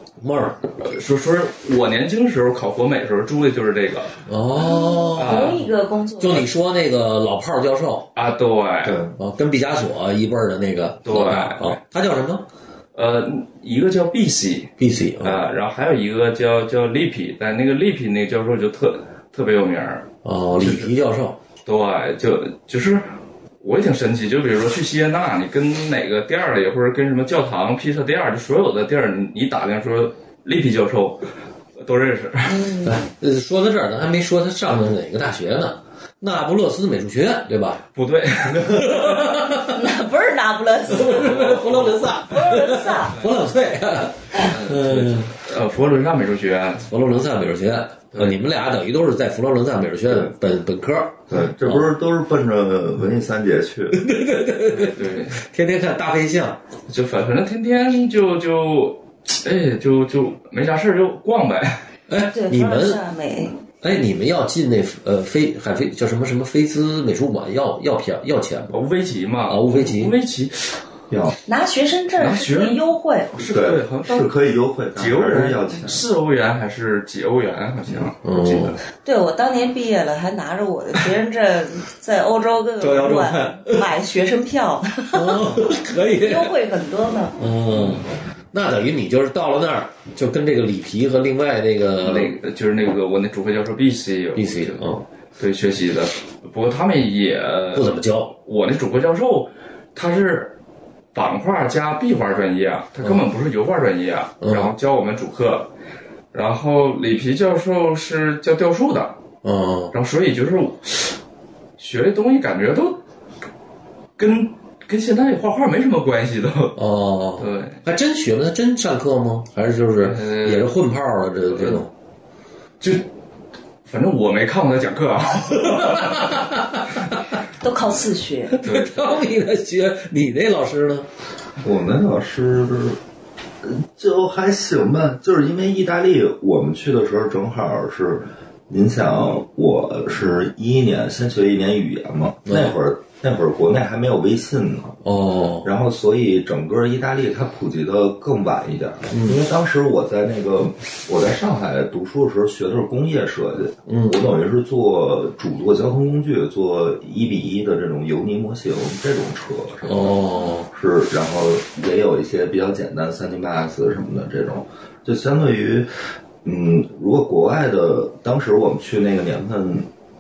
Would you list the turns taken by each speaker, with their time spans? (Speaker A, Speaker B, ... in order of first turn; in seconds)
Speaker A: 0.2-0.6, 4.3-5.6, 6.2-8.1, 9.2-12.4, 14.8-15.4, 20.2-21.4, 32.8-37.8, 38.6-39.9, 40.9-45.3, 46.9-51.9, 53.9-56.6, 62.1-63.0, 63.8-68.8, 69.5-70.2, 78.2-78.8, 82.8-83.9, 85.1-86.6, 87.4-92.3, 94.3-95.0, 97.7-98.3, 104.4-104.7, 109.4-109.9, 116.8-121.9, 125.6-127.1, 128.5-131.1, 142.5-142.8, 145.0-145.7, 153.9-154.2, 159.8-160.7
Speaker B: 0.8-4.2, 5.2-5.7, 8.2-9.0, 11.1-11.8, 12.9-20.9, 21.7-32.7, 38.0-39.5, 41.0-42.1, 44.3-46.9, 48.1-48.4, 54.7-55.4, 56.9-61.9, 68.7-70.8, 72.2-74.3, 75.0-78.8, 92.0-94.8, 95.4-97.9, 98.5-100.5, 101.1-105.7, 106.3-109.2, 109.9-111.2, 111.8-113.0, 114.2-116.8, 117.4-117.8, 120.0-120.7, 121.5-121.8, 122.8-123.1, 123.9-126.5, 128.6-129.2
Speaker C: 4.5-6.5, 32.5-33.0, 39.6-41.4, 42.3-43.2, 62.3-63.6, 71.5-73.4, 79.0-85.5, 86.2-87.4, 127.6-128.6
Speaker D: 8.8-9.1, 51.3-54.0, 71.1-71.4, 73.4-76.0, 131.6-133.0, 133.6-145.1, 145.6-165.9, 166.4-169.9